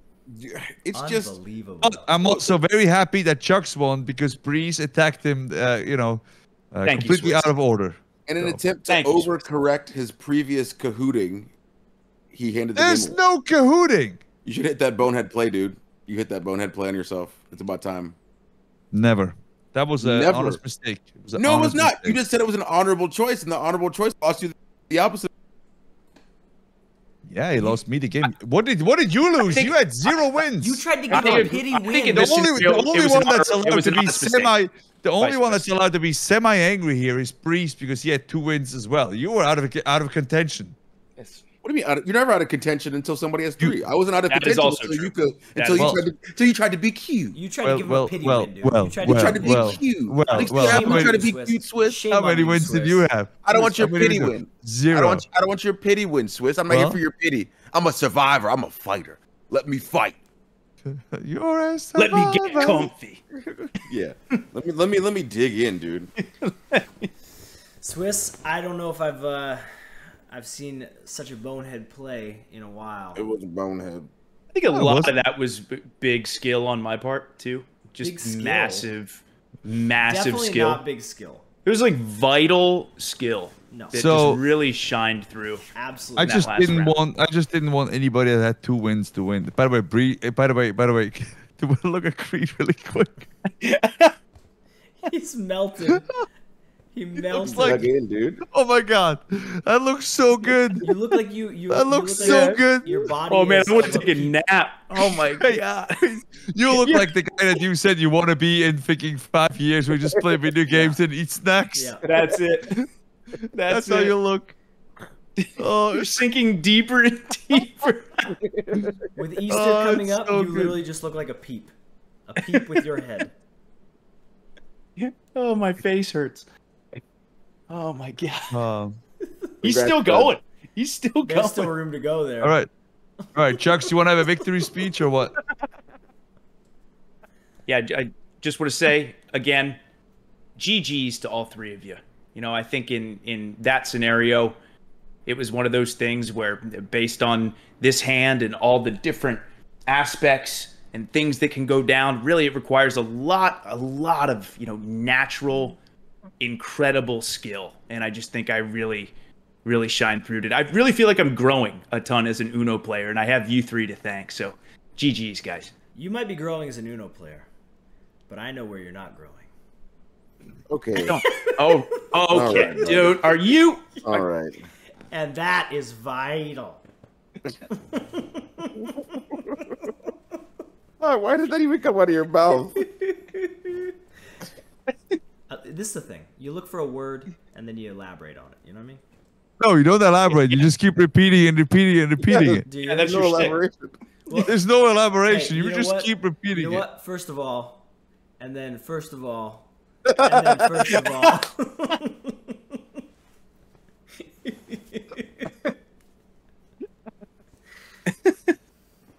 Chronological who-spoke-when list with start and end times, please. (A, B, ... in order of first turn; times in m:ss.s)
0:00.3-0:01.3 A
0:00.9-0:02.5 B
0:01.8-0:06.2 C
0:06.7-0:08.6 C
0:06.9-0:07.5 D
0:08.3-0:11.5 A
0:08.9-0:09.3 D
0:12.3-0:13.2 A
0:12.8-0:14.2 C
0:14.4-0:18.2 A
0:18.9-0:22.2 C
0:20.0-0:20.6 A
0:21.4-0:25.3 A
0:27.3-0:31.2 C
0:29.5-0:30.1 D
0:30.6-0:32.7 B
0:31.1-0:34.5 D
0:32.1-0:40.8 C
0:35.2-0:35.7 D
0:41.2-0:41.4 D
0:41.6-0:47.4 A
0:44.3-0:46.0 D
0:45.8-0:46.0 C
0:47.3-0:53.1 B
0:47.6-0:51.2 C
0:49.0-0:52.0 A
0:52.1-0:55.2 C
0:53.4-1:00.2 A
0:56.7-0:57.0 C
1:00.8-1:02.9 C
1:02.0-1:03.2 D
1:03.8-1:06.1 A
1:06.2-1:07.1 D
1:07.8-1:13.3 B
1:13.2-1:14.1 A
1:14.5-1:20.8 D
1:14.7-1:15.2 C
1:18.0-1:18.9 B
1:20.0-1:21.4 B
1:21.6-1:25.7 D
1:23.7-1:24.0 B
1:23.9-1:24.4 C
1:25.8-1:26.5 B
1:26.2-1:33.3 C
1:26.2-1:27.0 D
1:33.5-1:34.1 D
1:35.0-1:36.1 B
1:36.9-1:37.8 B
1:37.4-1:37.8 C
1:37.4-1:38.4 A
1:38.4-1:40.9 C
1:40.8-1:44.3 B
1:41.7-1:43.0 C
1:42.2-1:42.6 D
1:43.3-1:46.1 D
1:45.0-1:52.0 C
1:46.7-1:47.2 D
1:51.8-1:52.0 B
1:52.0-1:52.9 D
1:53.5-1:54.1 D
1:53.7-1:54.6 C
1:55.4-1:59.0 D
1:55.6-1:56.2 C
1:58.3-1:59.0 A
1:59.2-2:01.7 B
1:59.5-2:00.8 C
2:02.3-2:03.3 B
2:05.0-2:06.5 D
2:07.7-2:08.6 D
2:08.5-2:09.0 C
2:09.6-2:11.7 D
2:09.6-2:10.3 A
2:11.3-2:12.6 B
2:12.4-2:12.7 C
2:13.3-2:15.3 C
2:17.7-2:19.8 D
2:20.6-2:24.6 D
2:25.3-2:35.8 D
2:36.4-2:39.1 D
2:39.6-2:45.7 D
2:46.0-2:47.5 B
2:48.3-2:49.5 B
2:50.7-2:51.2 A
2:51.0-2:54.1 D
2:51.2-2:52.0 B
2:52.3-2:53.4 A
2:54.0-2:54.7 A
2:55.1-2:56.8 B
2:57.7-2:59.2 B
2:58.8-2:59.6 A
3:01.0-3:02.8 A
3:02.8-3:03.9 B
3:05.5-3:09.0 B
3:09.6-3:12.6 C
3:10.3-3:10.6 D
3:12.2-3:13.9 A
3:12.7-3:13.5 B
3:12.8-3:13.6 D
3:14.3-3:14.6 B
3:14.3-3:16.8 C
3:15.3-3:17.8 B
3:18.4-3:22.6 B
3:20.1-3:20.5 A
3:24.4-3:25.5 B
3:28.1-3:28.5 D